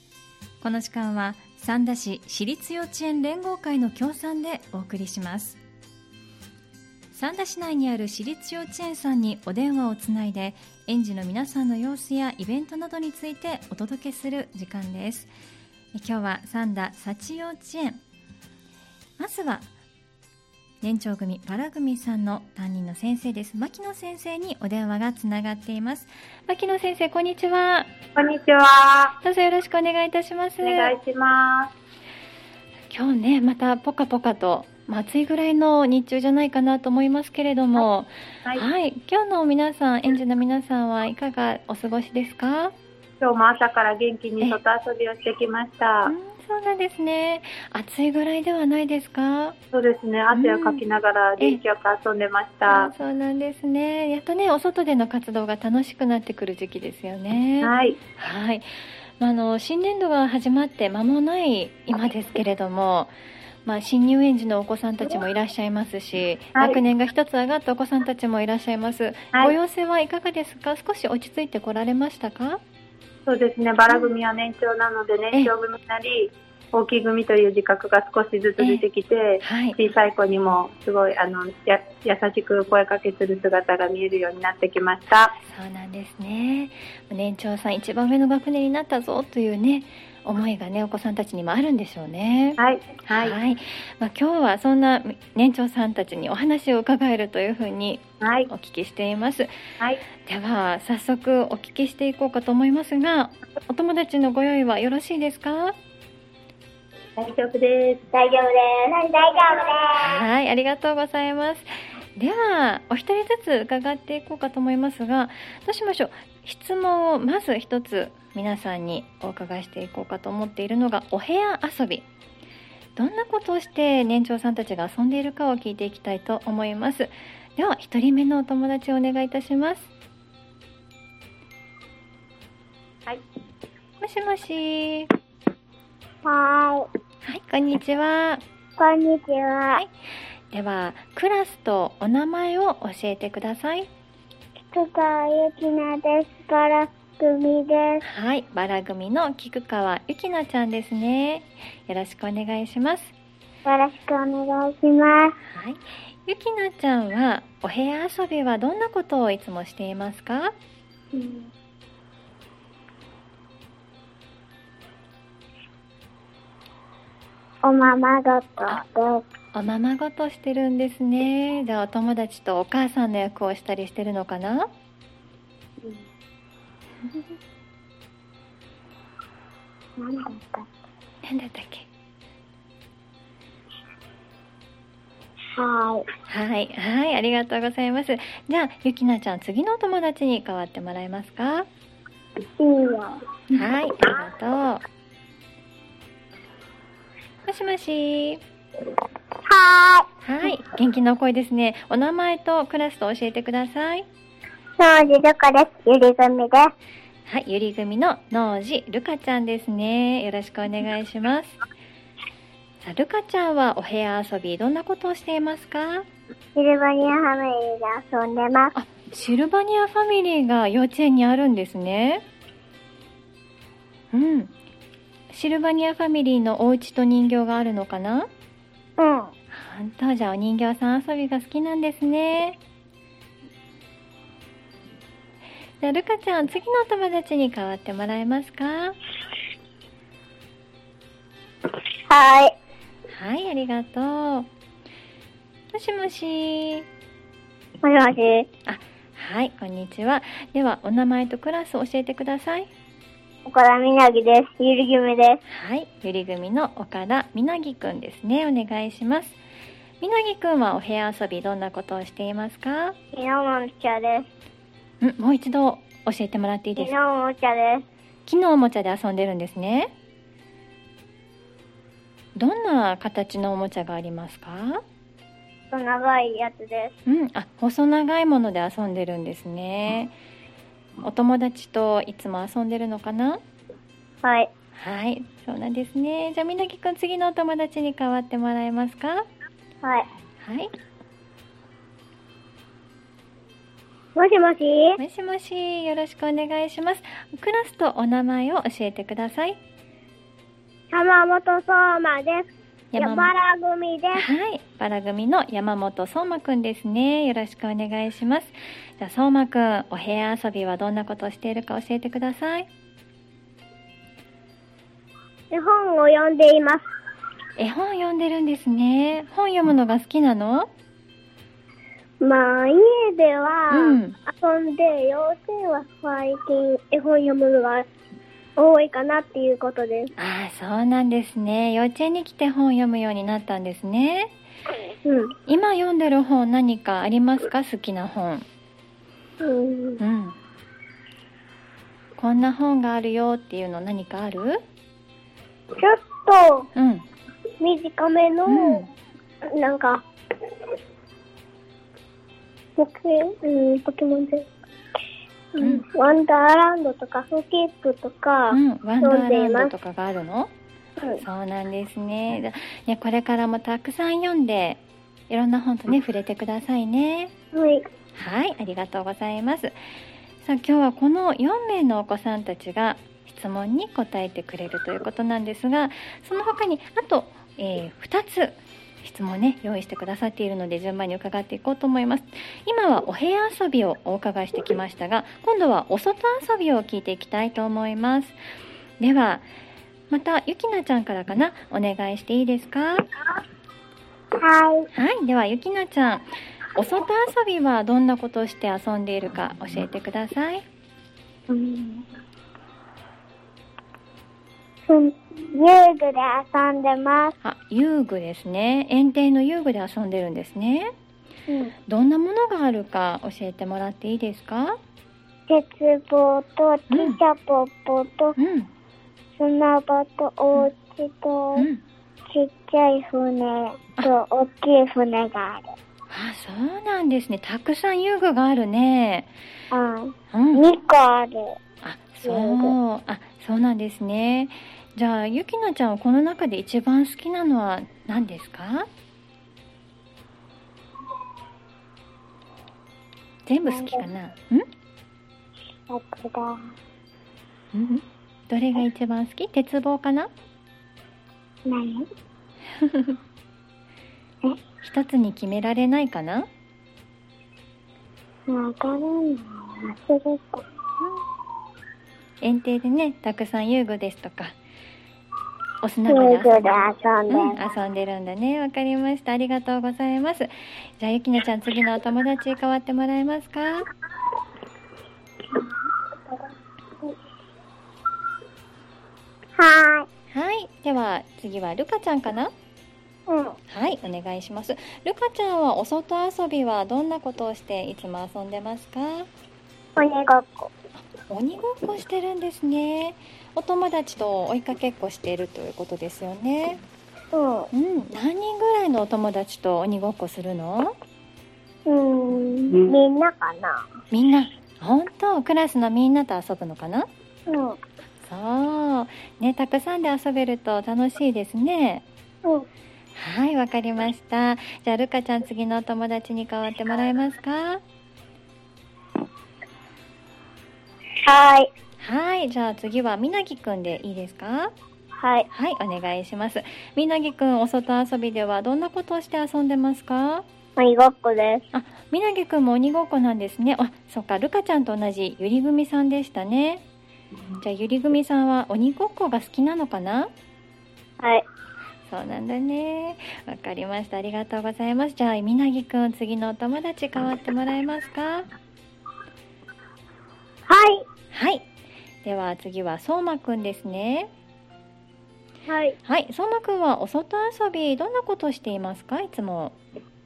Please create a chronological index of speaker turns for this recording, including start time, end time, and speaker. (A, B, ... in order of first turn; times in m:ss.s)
0:00.6-0:05.6 A
0:07.1-0:15.3 A
0:15.9-0:18.0 A
0:19.2-0:19.7 A
0:20.8-0:27.9 A
0:28.2-0:29.2 B
0:29.2-0:31.0 A
0:30.6-0:31.7 B
0:32.9-0:42.7 A
0:43.2-0:46.1 B
0:46.0-0:49.6 A
0:49.7-0:52.9 B
0:50.3-0:50.8 A
0:52.6-0:58.6 A
0:57.6-0:58.0 B
0:59.2-1:03.1 A
1:03.6-1:12.6 A
1:06.5-1:06.8 B
1:13.2-1:25.4 B
1:18.6-1:18.8 A
1:19.4-1:19.8 A
1:25.4-1:39.5 A
1:32.6-1:33.4 B
1:38.2-1:38.5 B
1:40.2-1:45.7 A
1:47.2-1:48.0 B
1:48.1-1:50.1 C
1:50.0-2:02.0 A
2:03.0-2:09.9 A
2:14.0-2:15.1 A
2:16.2-2:16.9 C
2:17.2-2:18.4 A
2:18.8-2:19.8 C
2:20.5-2:23.9 A
2:24.7-2:28.0 C
2:28.0-2:33.1 A
2:33.6-2:35.3 C
2:35.5-2:40.5 A
2:41.1-2:41.5 C
2:47.6-2:49.2 C
2:49.5-2:54.7 A
3:00.0-3:00.7 C
3:01.2-3:01.9 A
3:05.6-3:06.0 C
3:06.3-3:11.7 A
3:12.6-3:13.2 C
3:13.5-3:14.8 A
3:17.4-3:18.4 A
3:19.4-3:20.1 C
3:20.2-3:24.0 A
3:24.8-3:26.7 C
3:27.2-3:31.5 A
3:32.8-3:36.0 A
3:36.5-3:38.7 C
3:38.7-3:42.2 A
3:44.1-3:44.5 A
3:45.3-3:48.3 A
3:49.0-3:49.3 C
3:49.5-3:52.6 A
3:55.8-3:59.0 A
4:02.1-4:02.5 C
4:03.1-4:04.5 A
4:05.7-4:06.8 A
4:07.8-4:08.5 C
4:08.7-4:12.7 A
4:13.4-4:15.4 C
4:15.5-4:19.4 A
4:20.0-4:23.0 A
4:23.1-4:24.3 C
4:25.0-4:26.9 A
4:26.8-4:27.8 C
4:28.2-4:29.9 A
4:32.4-4:34.8 A
4:35.7-4:36.9 C
4:37.0-4:40.1 A
4:41.0-4:43.4 A
4:44.2-4:44.5 C
4:44.7-4:49.2 A
4:49.8-4:50.1 C
4:50.4-4:50.7 A
4:54.2-4:55.0 C
4:55.0-4:59.6 A
5:00.9-5:04.2 C
5:02.9-5:03.3 A
5:04.1-5:12.7 A
5:15.5-5:16.8 C
5:17.6-5:20.7 A
5:22.2-5:27.8 C
5:23.7-5:24.2 A
5:28.6-5:30.1 C
5:30.2-5:34.3 A
5:35.0-5:35.3 C
5:35.5-5:38.4 A
5:39.4-5:40.0 C
5:40.0-5:40.4 A
5:42.2-5:44.6 A
5:45.8-5:46.7 C
5:46.7-5:47.0 A
5:47.6-5:48.8 C
5:48.4-5:48.9 A
5:49.4-5:50.0 C
5:52.8-5:54.5 C
5:55.5-5:59.7 C
5:55.6-5:55.8 A
5:58.5-6:00.5 A
6:01.2-6:07.3 A
6:07.5-6:07.8 C
6:08.2-6:09.7 A
6:10.4-6:28.4 A
6:29.0-6:29.4 A
6:30.1-6:33.0 A
6:34.4-6:34.9 C
6:34.9-6:40.6 A
6:41.5-6:42.0 C
6:44.9-6:47.3 C
6:47.4-6:50.9 A
6:51.5-6:51.7 C
6:51.9-6:54.8 A
6:55.5-6:58.3 C
6:56.9-6:57.2 A
6:58.4-6:58.7 A
6:59.4-7:01.7 C
7:01.5-7:01.8 A
7:02.3-7:05.7 C
7:06.1-7:09.3 A
7:09.7-7:11.6 C
7:10.3-7:10.6 A
7:11.8-7:18.9 A
7:12.2-7:12.8 C
7:23.5-7:24.7 A
7:23.7-7:24.1 C
7:25.9-7:26.6 C
7:27.7-7:30.3 A
7:31.6-7:32.0 C
7:32.8-7:33.2 A
7:34.8-7:36.5 A
7:38.5-7:40.6 C
7:42.4-7:44.5 A
7:45.8-7:53.9 A
7:46.1-7:47.6 C
7:59.6-8:00.1 C
8:00.3-8:02.5 A
8:03.3-8:03.6 C
8:03.7-8:09.3 A
8:10.0-8:10.7 C
8:11.3-8:16.8 A
8:17.3-8:17.7 C
8:17.7-8:20.9 A
8:21.8-8:23.8 C
8:24.1-8:27.1 A
8:27.5-8:27.8 C
8:28.2-8:32.0 A
8:33.1-8:37.8 A
8:41.2-8:41.7 C
8:42.0-8:44.7 A
8:45.2-8:45.5 C
8:45.5-8:50.4 A
8:50.8-8:51.6 C
8:51.7-8:56.8 A
8:57.6-9:00.3 A
9:02.1-9:08.4 A
9:10.7-9:11.0 C
9:11.3-9:11.6 A
9:12.2-9:14.3 A
9:15.7-9:16.0 C
9:16.0-9:19.8 A